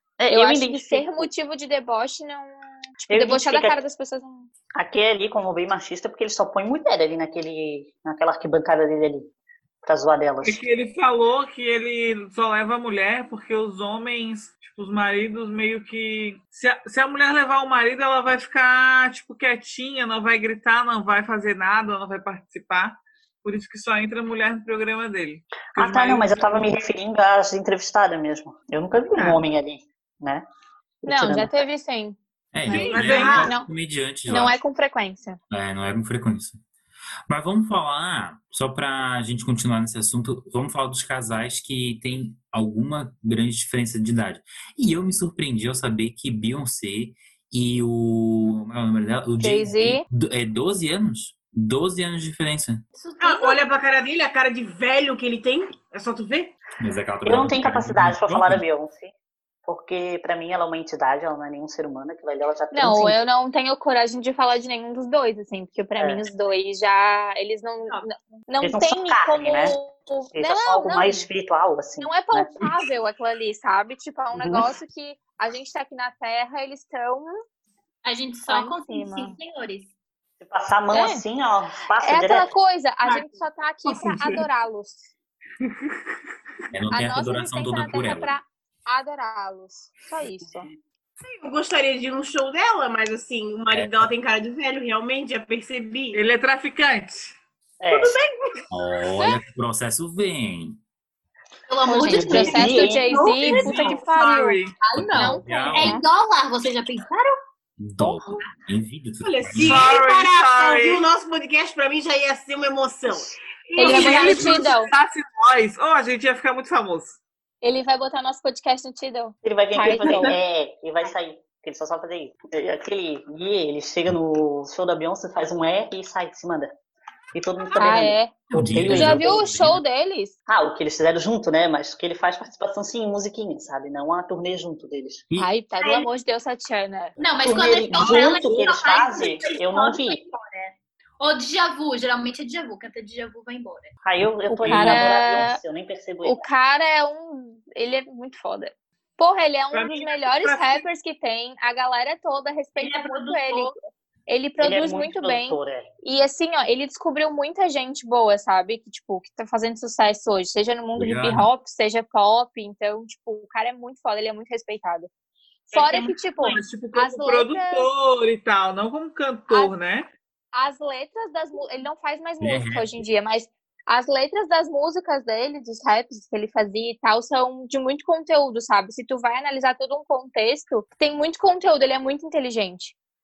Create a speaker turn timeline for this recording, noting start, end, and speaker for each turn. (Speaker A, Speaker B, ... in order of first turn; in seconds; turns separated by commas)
Speaker A: 0.2-1.3, Speaker B: 0.3-4.5, Speaker A: 3.1-3.8, Speaker A: 4.8-9.3, Speaker A: 9.8-10.6, Speaker C: 10.4-26.4, Speaker A: 25.8-30.4, Speaker C: 29.1-29.4, Speaker A: 31.0-31.6, Speaker B: 31.1-32.2, Speaker D: 32.5-34.6, Speaker B: 32.7-33.7, Speaker C: 32.7-33.5, Speaker E: 32.9-33.5, Speaker B: 34.3-35.4, Speaker D: 35.5-36.6, Speaker D: 37.3-52.8, Speaker B: 49.4-50.0, Speaker F: 53.0-53.6, Speaker E: 53.2-56.5, Speaker D: 56.8-58.6, Speaker A: 57.2-59.1, Speaker A: 59.7-63.2, Speaker B: 62.7-71.3, Speaker A: 66.0-66.3, Speaker A: 68.6-69.8, Speaker A: 70.3-72.5, Speaker B: 72.0-77.4, Speaker A: 74.3-74.7, Speaker F: 78.0-79.9, Speaker B: 78.5-79.4, Speaker A: 80.4-82.5, Speaker B: 80.9-81.2, Speaker B: 82.0-85.1, Speaker C: 83.0-83.3, Speaker C: 83.9-84.5, Speaker D: 86.7-88.3, Speaker B: 86.9-90.7, Speaker E: 91.2-96.2, Speaker D: 93.7-94.1, Speaker C: 96.1-97.3, Speaker A: 97.8-98.2, Speaker E: 97.9-98.7, Speaker D: 98.7-100.8, Speaker F: 101.7-102.9, Speaker A: 101.8-103.2, Speaker E: 102.0-104.1, Speaker B: 102.0-106.0, Speaker C: 103.4-104.8, Speaker F: 104.8-107.4, Speaker D: 105.0-106.0, Speaker D: 107.8-109.9, Speaker E: 109.2-114.6, Speaker C: 109.6-111.0, Speaker B: 113.8-114.9, Speaker C: 113.8-117.2, Speaker F: 113.8-114.6, Speaker B: 117.6-120.3, Speaker A: 119.4-126.7, Speaker A: 127.3-129.5, Speaker B: 127.8-130.3, Speaker D: 128.5-129.8, Speaker A: 130.5-135.2, Speaker B: 135.4-137.2, Speaker F: 135.8-136.1, Speaker F: 137.2-143.9, Speaker A: 137.4-140.2, Speaker C: 138.0-138.2, Speaker A: 144.0-146.4, Speaker B: 144.5-145.6, Speaker D: 144.7-145.1, Speaker B: 146.2-153.8, Speaker C: 149.7-150.8, Speaker F: 152.8-153.7, Speaker B: 154.3-165.1, Speaker A: 154.6-155.9, Speaker D: 161.0-161.5, Speaker B: 165.7-167.9, Speaker C: 165.8-170.1, Speaker B: 170.5-182.9, Speaker D: 172.4-173.0